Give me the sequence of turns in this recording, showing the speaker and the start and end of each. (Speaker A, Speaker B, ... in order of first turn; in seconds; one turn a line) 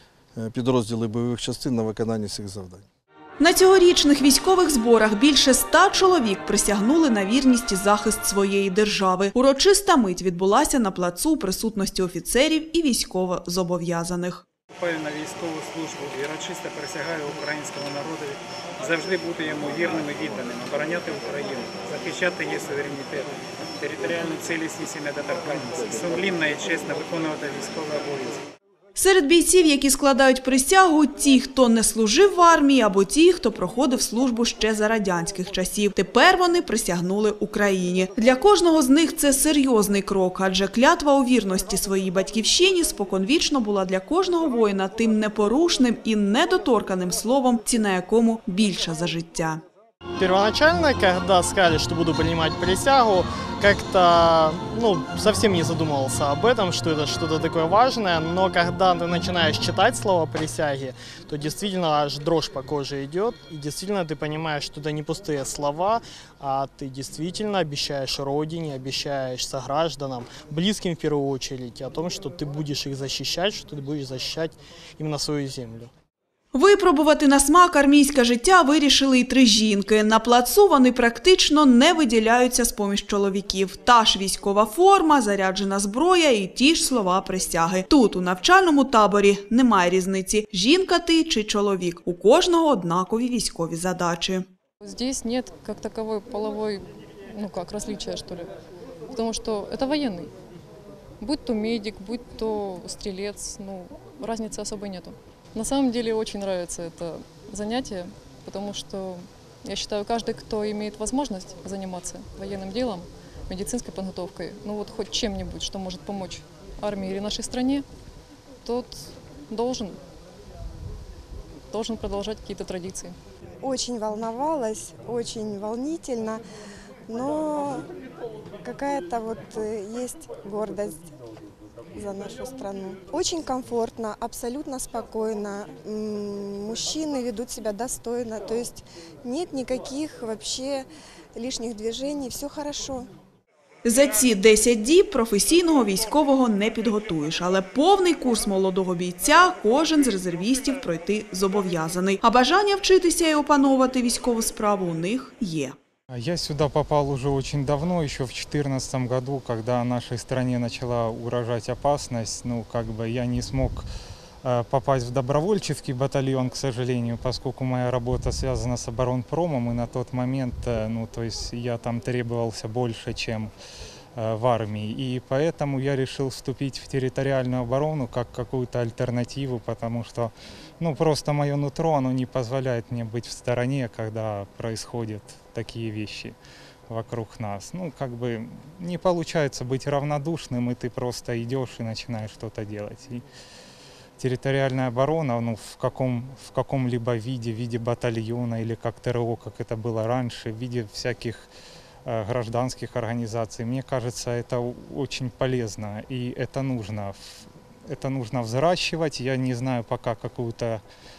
Speaker A: 0.3-2.9
Speaker B: 3.4-14.4
Speaker C: 14.8-28.4
Speaker B: 28.9-49.6
Speaker D: 50.2-75.9
Speaker B: 76.5-94.5
Speaker E: 94.8-98.5
Speaker E: 99.1-100.3
Speaker E: 101.2-117.8
Speaker E: 118.6-120.0
Speaker E: 121.7-123.2
Speaker F: 123.6-126.4
Speaker F: 127.1-127.8
Speaker F: 128.6-131.0
Speaker F: 132.0-143.1
Speaker B: 143.8-155.7
Speaker G: 156.1-163.8
Speaker G: 164.4-173.5
Speaker G: 174.2-186.3
Speaker G: 186.9-193.2
Speaker G: 194.2-201.5
Speaker G: 202.1-210.8